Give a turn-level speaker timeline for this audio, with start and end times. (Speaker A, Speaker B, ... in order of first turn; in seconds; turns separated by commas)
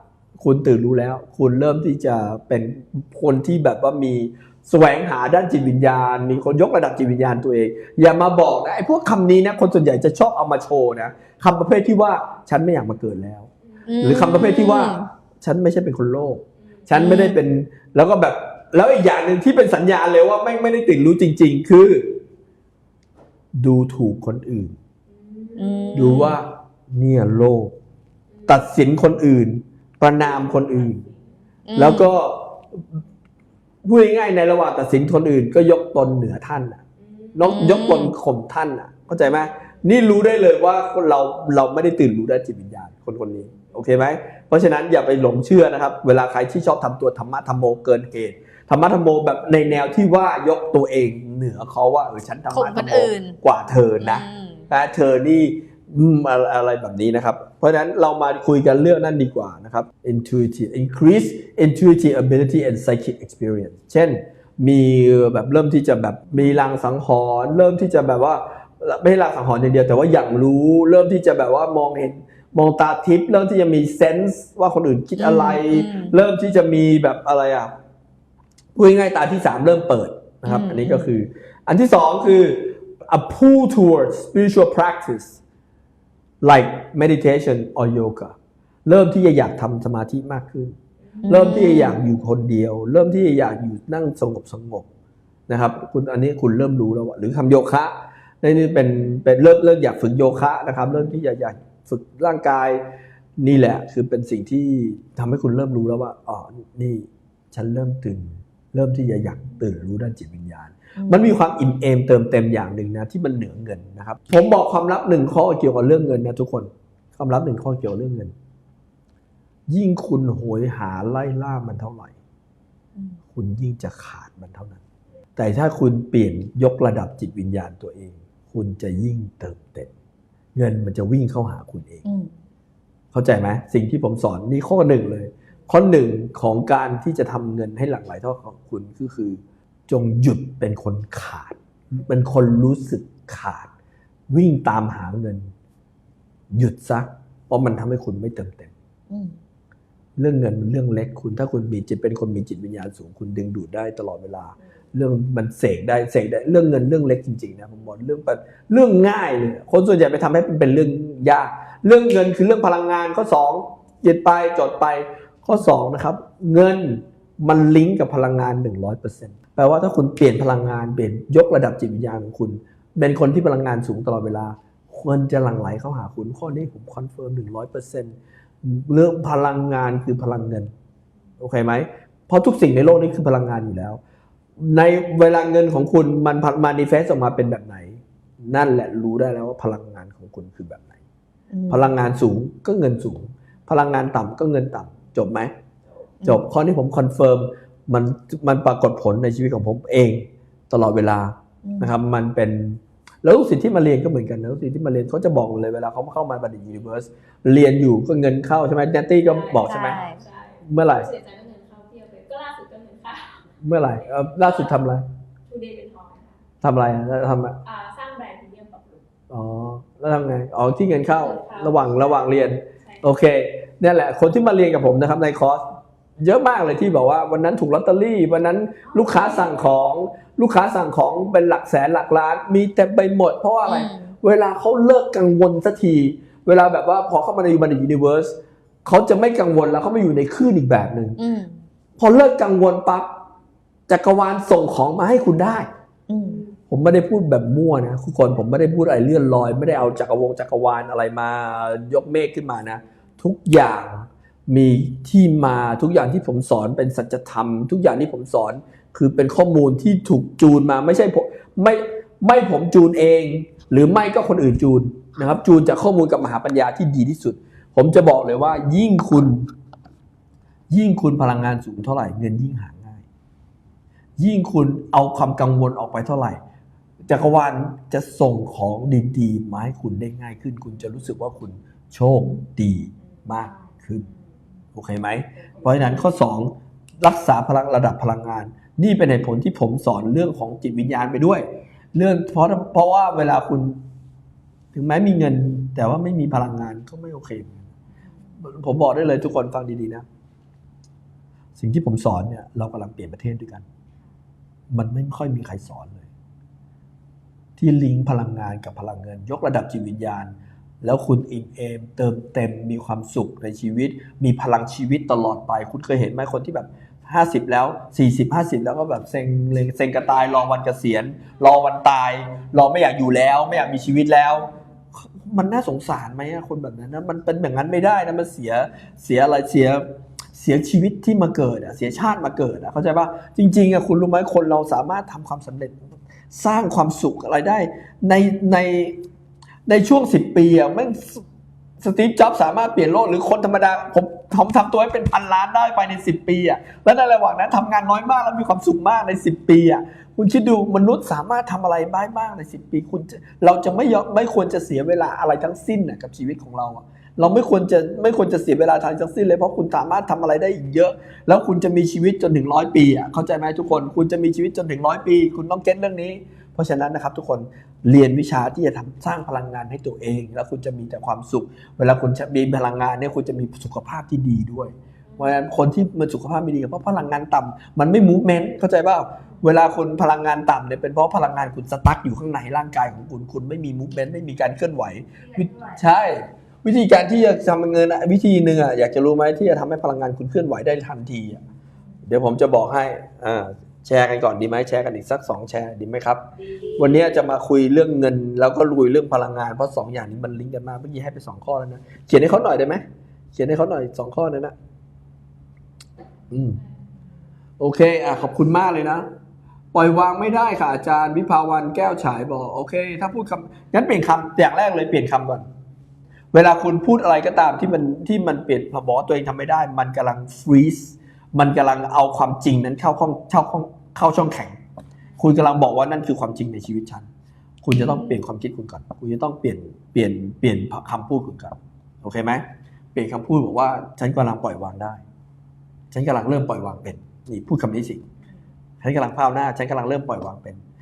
Speaker A: 0.4-13.5, Speaker B: 13.8-15.1, Speaker A: 14.0-22.2, Speaker B: 16.9-17.4, Speaker A: 23.6-24.8, Speaker C: 25.1-26.2, Speaker B: 25.6-26.4, Speaker A: 25.9-27.7, Speaker C: 28.3-28.6, Speaker A: 28.5-31.0, Speaker C: 30.3-31.2, Speaker B: 31.7-32.1, Speaker A: 31.7-33.0, Speaker A: 33.8-36.8, Speaker C: 37.0-37.4, Speaker A: 37.3-77.7, Speaker B: 37.5-38.1, Speaker B: 52.5-53.4, Speaker B: 54.0-54.6, Speaker B: 75.2-76.2, Speaker A: 78.7-85.4, Speaker B: 80.4-81.1, Speaker A: 86.4-90.7, Speaker B: 91.2-92.0, Speaker A: 91.3-94.9, Speaker A: 95.5-102.8, Speaker A: 103.4-118.3, Speaker B: 111.0-111.3, Speaker A: 119.7-122.2, Speaker A: 123.3-124.8, Speaker A: 125.4-129.9, Speaker A: 130.5-132.0, Speaker B: 132.0-132.3, Speaker A: 133.1-143.7, Speaker A: 144.3-145.5, Speaker A: 146.5-148.7, Speaker B: 149.1-149.3, Speaker A: 150.2-180.7, Speaker A: 181.4-184.0, Speaker A: 184.6-190.9, Speaker B: 191.5-191.9, Speaker A: 191.7-195.5, Speaker B: 196.2-196.5, Speaker A: 196.2-210.0, Speaker B: 201.6-201.9, Speaker C: 209.2-213.4, Speaker B: 209.6-210.2, Speaker A: 210.6-211.1, Speaker A: 213.6-215.0, Speaker C: 214.4-214.7, Speaker C: 215.5-216.4, Speaker A: 216.6-217.6, Speaker C: 217.6-219.0, Speaker A: 219.3-225.6, Speaker C: 221.1-222.3, Speaker A: 226.2-241.2, Speaker C: 228.9-229.6, Speaker B: 233.6-234.1, Speaker B: 241.2-241.6, Speaker A: 242.0-243.1, Speaker A: 243.9-245.7, Speaker B: 246.1-246.4, Speaker A: 246.7-269.5, Speaker A: 270.7-273.0, Speaker A: 274.2-276.4, Speaker A: 277.1-284.1, Speaker A: 284.7-293.8, Speaker A: 294.7-297.7, Speaker A: 298.4-300.0, Speaker A: 301.6-303.6, Speaker A: 304.7-306.1, Speaker A: 307.6-339.0, Speaker A: 339.7-341.2, Speaker A: 341.8-391.4, Speaker A: 392.1-402.8, Speaker A: 403.3-404.5, Speaker A: 406.3-406.6, Speaker A: 407.6-409.1, Speaker A: 409.7-415.4, Speaker A: 416.3-424.6, Speaker A: 425.2-427.1, Speaker A: 427.6-435.0, Speaker B: 427.8-428.1, Speaker A: 435.9-438.0, Speaker A: 438.8-440.6